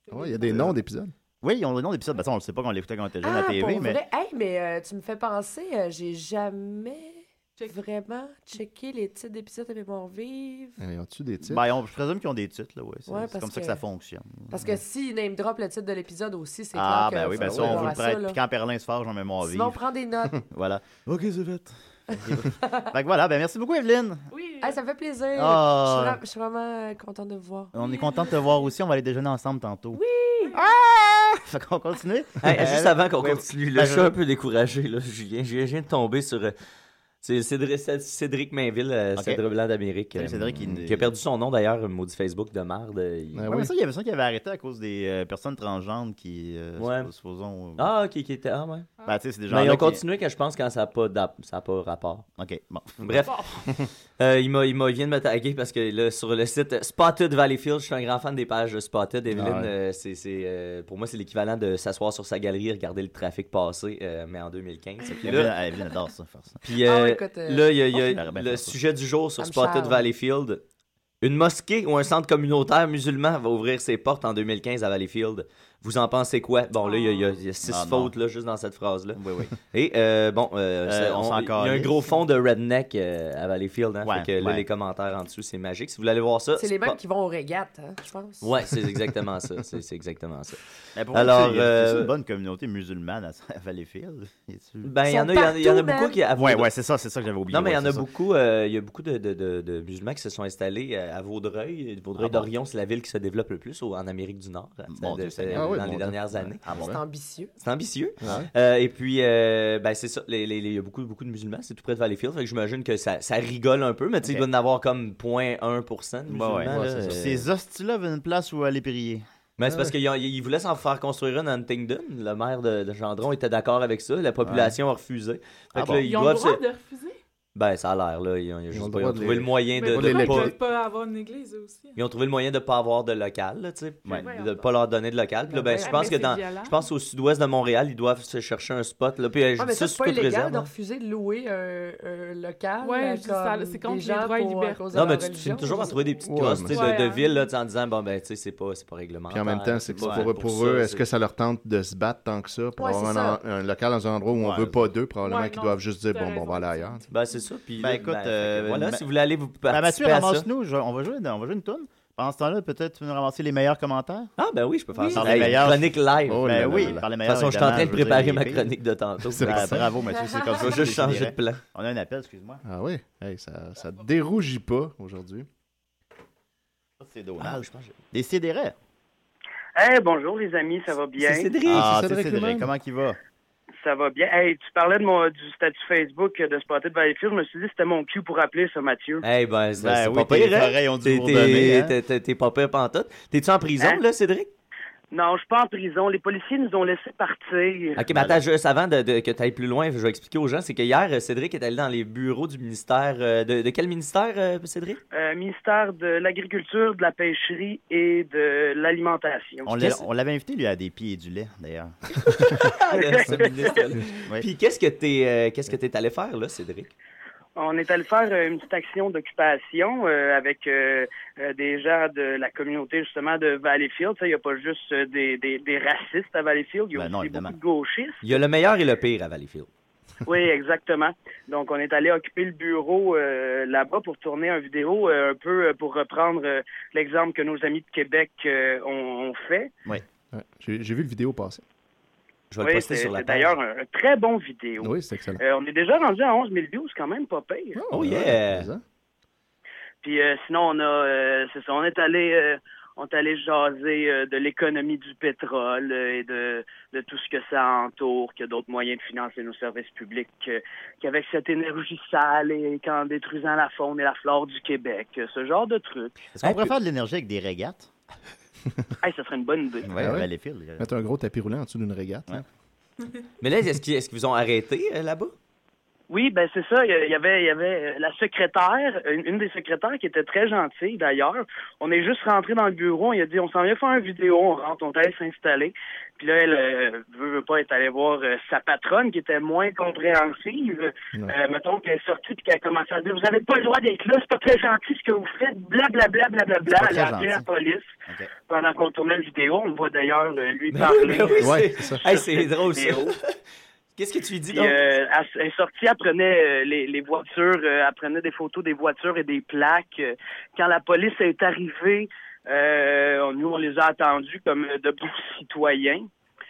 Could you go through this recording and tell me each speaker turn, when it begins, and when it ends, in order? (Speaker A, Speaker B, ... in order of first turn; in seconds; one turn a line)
Speaker A: 0.1-1.1
Speaker B: 0.5-0.8
Speaker B: 1.4-4.0
Speaker C: 3.2-10.8
Speaker A: 10.8-11.6
Speaker B: 11.4-14.8
Speaker C: 13.1-13.8
Speaker C: 14.5-18.4
Speaker B: 16.8-19.8
Speaker A: 17.4-18.0
Speaker C: 19.4-20.4
Speaker B: 20.4-24.3
Speaker C: 22.5-22.9
Speaker D: 24.3-24.8
Speaker C: 24.6-27.7
Speaker B: 25.4-26.2
Speaker B: 27.7-30.0
Speaker D: 27.8-28.6
Speaker C: 29.9-30.6
Speaker B: 30.6-34.1
Speaker E: 32.4-36.5
Speaker E: 37.2-43.5
Speaker B: 40.1-41.1
Speaker A: 43.3-43.7
Speaker B: 43.5-47.9
Speaker E: 46.8-47.1
Speaker E: 47.8-48.9
Speaker B: 49.0-50.0
Speaker E: 49.5-52.2
Speaker B: 52.4-53.1
Speaker E: 53.0-53.4
Speaker D: 53.3-53.6
Speaker E: 54.2-65.5
Speaker A: 59.3-59.7
Speaker B: 65.1-66.6
Speaker E: 66.6-70.6
Speaker C: 66.8-67.7
Speaker B: 67.9-68.8
Speaker C: 69.4-70.1
Speaker E: 71.2-87.0
Speaker B: 77.6-78.1
Speaker B: 79.2-79.5
Speaker B: 80.9-82.0
Speaker B: 84.0-84.7
Speaker C: 86.6-88.5
Speaker E: 88.4-90.6
Speaker B: 91.0-94.9
Speaker E: 91.1-92.1
Speaker E: 94.8-96.7
Speaker C: 95.1-96.2
Speaker B: 96.4-98.1
Speaker E: 97.5-106.6
Speaker B: 102.2-102.5
Speaker B: 104.9-107.0
Speaker A: 105.5-107.0
Speaker C: 106.8-107.5
Speaker E: 107.6-117.5
Speaker A: 108.2-108.5
Speaker B: 116.3-119.2
Speaker A: 116.7-117.3
Speaker E: 119.6-126.6
Speaker A: 119.7-120.0
Speaker B: 124.4-124.8
Speaker B: 125.7-126.0
Speaker D: 125.9-127.2
Speaker E: 127.5-130.6
Speaker A: 128.7-130.6
Speaker D: 129.7-132.0
Speaker E: 132.0-140.7
Speaker C: 134.2-134.5
Speaker C: 135.5-136.2
Speaker D: 135.8-136.8
Speaker C: 139.6-146.0
Speaker D: 142.8-145.8
Speaker E: 144.9-151.0
Speaker A: 146.2-146.8
Speaker D: 146.7-147.4
Speaker A: 149.3-157.0
Speaker B: 150.0-150.3
Speaker C: 152.8-153.4
Speaker B: 154.4-154.8
Speaker D: 155.2-157.1
Speaker E: 157.1-160.5
Speaker B: 157.8-159.0
Speaker B: 159.7-164.3
Speaker E: 164.4-169.8
Speaker B: 165.1-168.7
Speaker A: 166.3-167.0
Speaker A: 169.3-169.9
Speaker B: 169.4-172.6
Speaker C: 170.1-170.5
Speaker E: 170.6-171.6
Speaker A: 172.7-175.5
Speaker B: 177.0-178.8
Speaker E: 177.4-178.0
Speaker F: 179.8-181.5
Speaker E: 181.2-181.9
Speaker A: 181.7-182.7
Speaker B: 181.7-183.2
Speaker F: 183.8-189.2
Speaker E: 189.2-194.5
Speaker B: 189.8-191.9
Speaker F: 195.1-198.0
Speaker E: 198.0-205.0
Speaker B: 198.1-198.4
Speaker F: 205.1-209.7
Speaker B: 209.7-211.9
Speaker E: 209.7-210.0
Speaker E: 212.3-216.9
Speaker F: 212.9-213.8
Speaker F: 217.6-228.2
Speaker B: 226.9-227.6
Speaker E: 228.2-229.7
Speaker F: 230.2-239.7
Speaker A: 240.3-241.6
Speaker E: 242.5-243.6
Speaker F: 242.6-247.8
Speaker A: 244.8-245.4
Speaker A: 247.8-248.8
Speaker E: 247.9-248.7
Speaker F: 250.0-266.2
Speaker B: 266.3-267.9
Speaker E: 266.4-266.7
Speaker F: 269.0-269.9
Speaker B: 269.9-270.9
Speaker A: 269.9-272.4
Speaker E: 273.4-275.3
Speaker F: 276.1-297.9
Speaker B: 296.8-297.5
Speaker F: 298.5-303.1
Speaker E: 300.7-303.3
Speaker A: 301.4-302.0
Speaker E: 304.0-304.8
Speaker F: 304.5-316.1